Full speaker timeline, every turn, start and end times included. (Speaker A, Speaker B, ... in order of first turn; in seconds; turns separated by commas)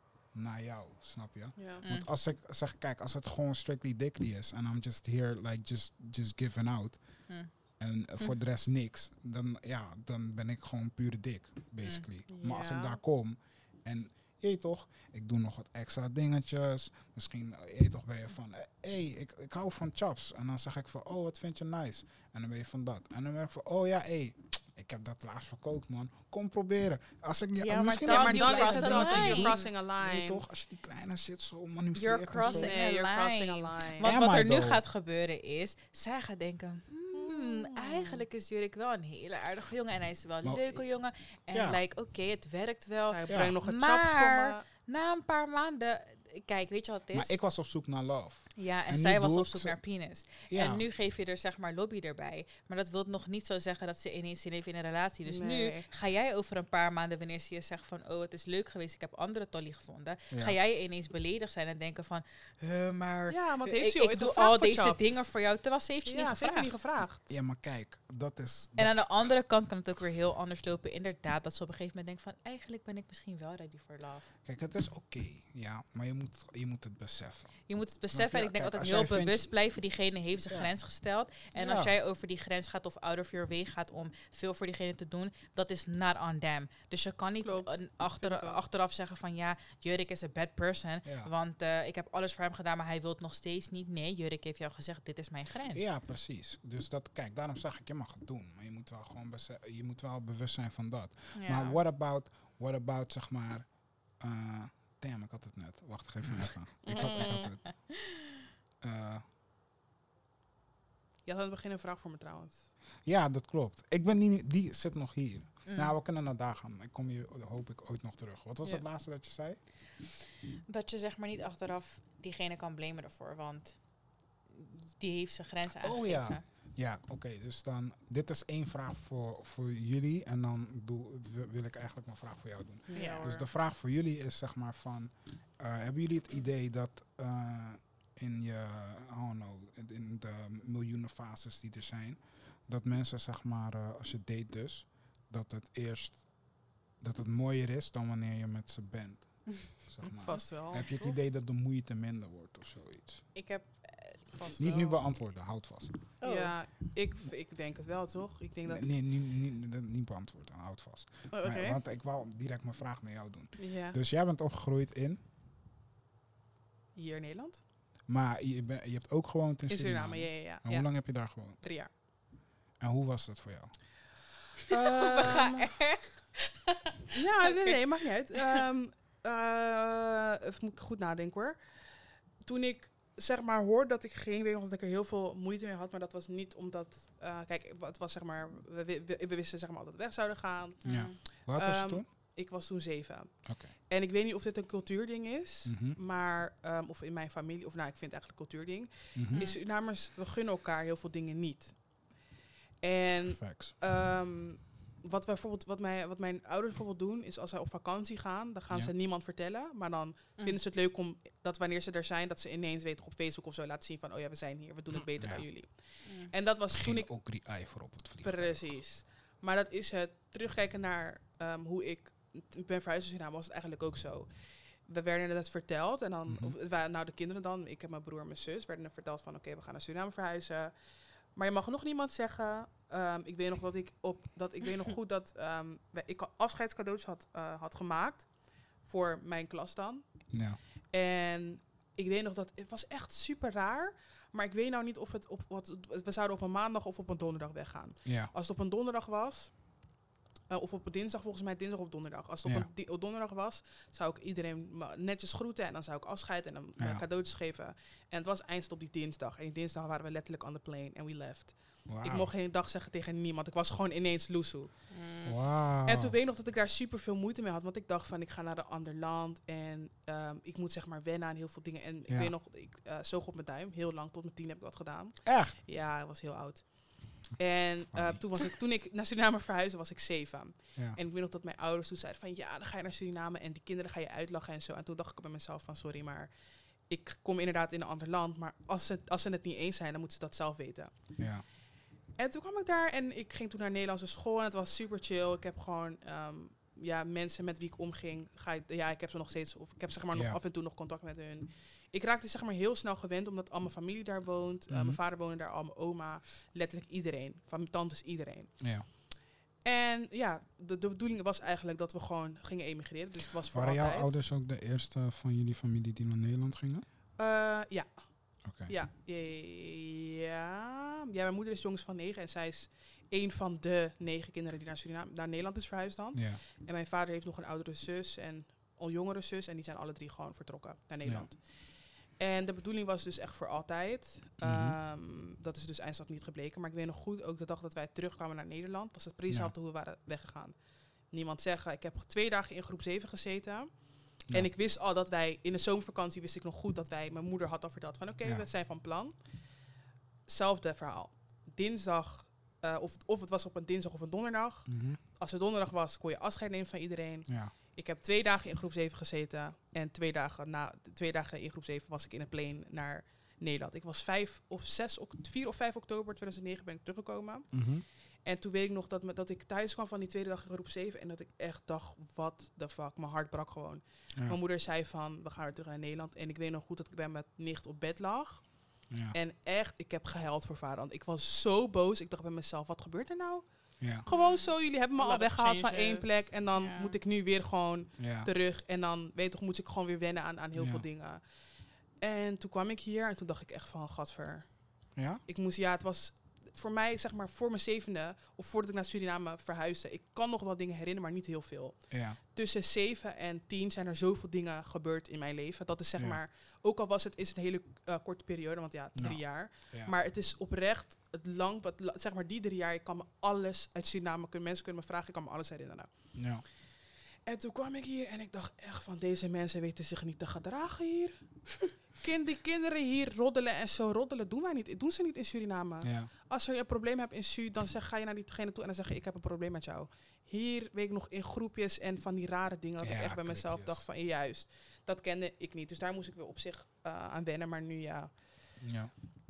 Speaker A: 0.3-32.8, Speaker B: 1.6-1.8, Speaker C: 1.8-2.1, Speaker B: 12.3-13.0, Speaker C: 27.6-29.6, Speaker B: 28.1-30.4, Speaker C: 31.9-47.3, Speaker B: 32.4-34.1, Speaker A: 34.0-34.8, Speaker B: 37.1-38.2, Speaker A: 40.4-40.8, Speaker A: 41.5-41.8, Speaker B: 43.1-44.6, Speaker A: 43.3-43.5, Speaker A: 47.1-49.8, Speaker C: 48.5-66.7, Speaker A: 50.5-50.8, Speaker B: 55.3-55.9, Speaker B: 63.3-65.3, Speaker B: 66.0-67.3, Speaker A: 67.3-69.3, Speaker C: 68.8-74.3, Speaker A: 74.5-79.5, Speaker C: 77.7-95.8, Speaker A: 81.5-81.9, Speaker B: 87.4-88.6, Speaker A: 91.0-91.3, Speaker A: 95.7-107.9, Speaker C: 101.4-101.8, Speaker B: 106.8-107.5, Speaker C: 107.2-107.5, Speaker A: 108.8-109.2, Speaker B: 111.2-112.7, Speaker A: 113.0-119.6, Speaker C: 115.7-115.9, Speaker C: 120.7-126.4, Speaker A: 125.8-153.3, Speaker B: 132.9-133.5, Speaker C: 132.9-133.3, Speaker B: 150.2-151.2, Speaker C: 153.3-155.0, Speaker A: 154.6-156.2, Speaker C: 156.2-156.6, Speaker B: 156.2-158.9, Speaker A: 158.7-165.2, Speaker B: 161.3-161.8, Speaker B: 163.6-164.0, Speaker B: 166.9-167.6, Speaker A: 168.1-171.7, Speaker B: 169.7-171.9, Speaker A: 172.8-173.8, Speaker B: 174.7-175.9, Speaker C: 174.7-176.2, Speaker B: 177.1-202.2, Speaker C: 190.8-191.2, Speaker A: 190.8-192.1, Speaker A: 193.4-193.7, Speaker A: 195.7-196.0, Speaker A: 199.2-199.5, Speaker C: 199.3-199.6, Speaker B: 202.8-217.6, Speaker A: 203.3-203.8, Speaker A: 214.9-215.5, Speaker C: 216.0-216.3, Speaker A: 216.7-218.8, Speaker B: 218.2-264.9, Speaker A: 226.3-226.6, Speaker A: 240.3-240.6, Speaker A: 248.1-248.3, Speaker A: 256.8-257.0, Speaker A: 261.9-262.3, Speaker C: 264.9-265.4, Speaker A: 265.2-266.2, Speaker B: 265.9-291.3, Speaker A: 272.1-272.3, Speaker A: 275.3-275.6, Speaker A: 277.9-278.2, Speaker A: 291.2-291.4, Speaker B: 292.2-314.1, Speaker A: 300.1-300.4, Speaker A: 304.7-305.0, Speaker A: 308.6-308.9, Speaker A: 313.5-316.9, Speaker B: 317.2-416.7, Speaker A: 318.4-318.7, Speaker A: 326.1-326.4, Speaker A: 331.0-331.3, Speaker A: 334.4-334.8, Speaker A: 354.7-355.0, Speaker A: 357.3-357.6, Speaker A: 367.5-367.9, Speaker A: 378.9-379.1, Speaker A: 383.8-384.1, Speaker C: 384.1-387.0, Speaker A: 388.0-388.3, Speaker A: 390.6-390.9, Speaker A: 394.9-395.2, Speaker A: 401.9-402.2, Speaker A: 406.0-406.2, Speaker A: 409.0-409.9, Speaker A: 416.1-416.4, Speaker B: 417.2-438.6, Speaker A: 425.8-426.1, Speaker A: 432.8-433.8, Speaker A: 438.6-438.9